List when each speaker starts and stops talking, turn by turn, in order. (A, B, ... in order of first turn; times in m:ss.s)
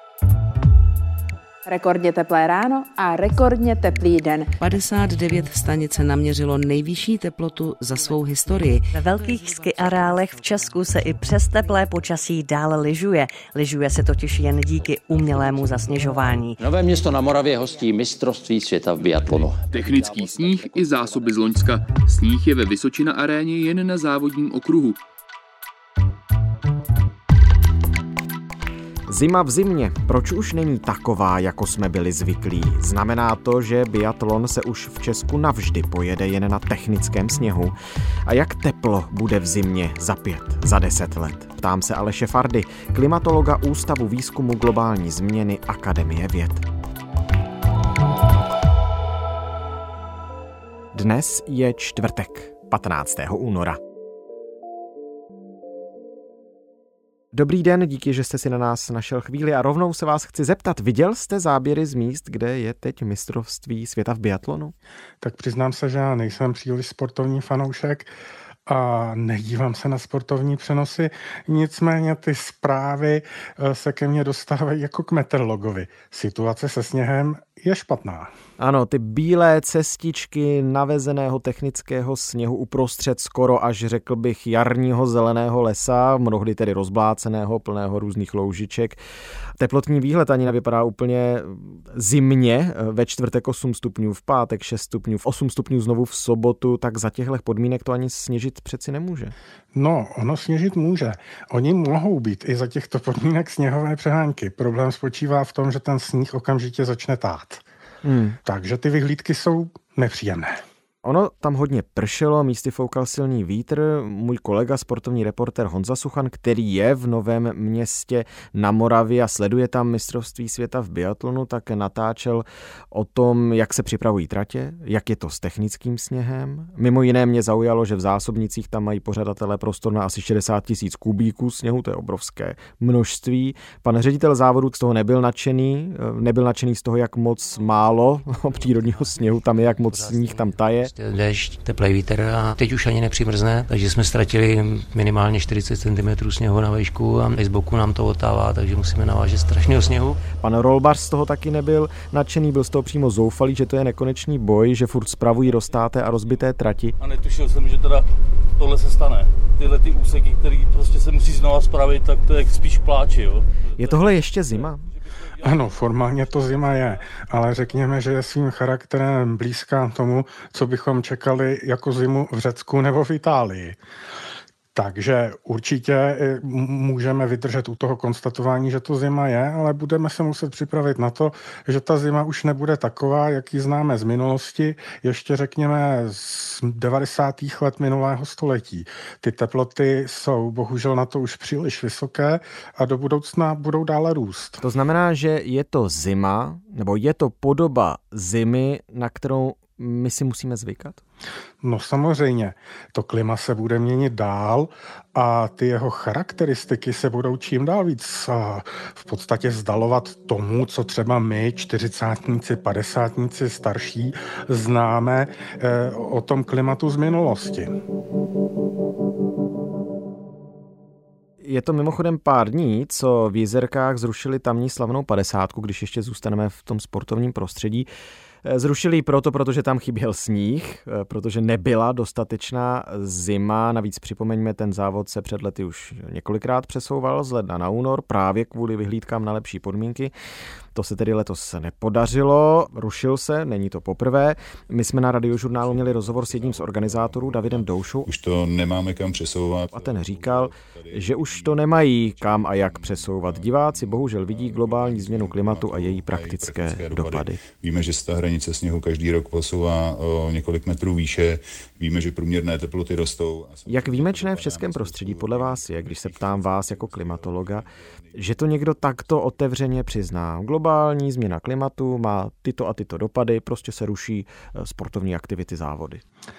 0:01.6-0:04.5 A
0:04.6-0:08.9 B
0:08.9-0:16.6 C
0:16.6-0:21.4 D
0:19.7-0:25.0 E
0:29.1-0:37.7 F
0:38.2-0:46.6 F
0:50.9-0:53.8 F
0:57.3-1:04.7 F
1:05.2-1:08.1 G
1:08.7-1:18.3 G
1:18.6-1:29.0 F
1:29.6-1:39.3 F
1:39.7-1:47.6 G
1:48.0-1:48.4 F
1:48.4-1:50.6 G
1:51.0-2:20.9 F
2:19.9-2:30.2 H
2:30.3-2:36.9 F
2:35.1-2:36.4 I
2:37.0-2:47.2 I
2:43.8-2:44.8 F
2:45.4-2:53.8 G
2:54.7-3:14.6 G
3:14.6-3:21.0 F
3:21.6-3:37.7 G
3:41.4-3:47.9 F
3:48.4-4:00.1 F
4:00.7-4:08.1 F
4:05.4-4:29.1 J
4:09.7-4:17.4 F
4:23.7-4:36.0 F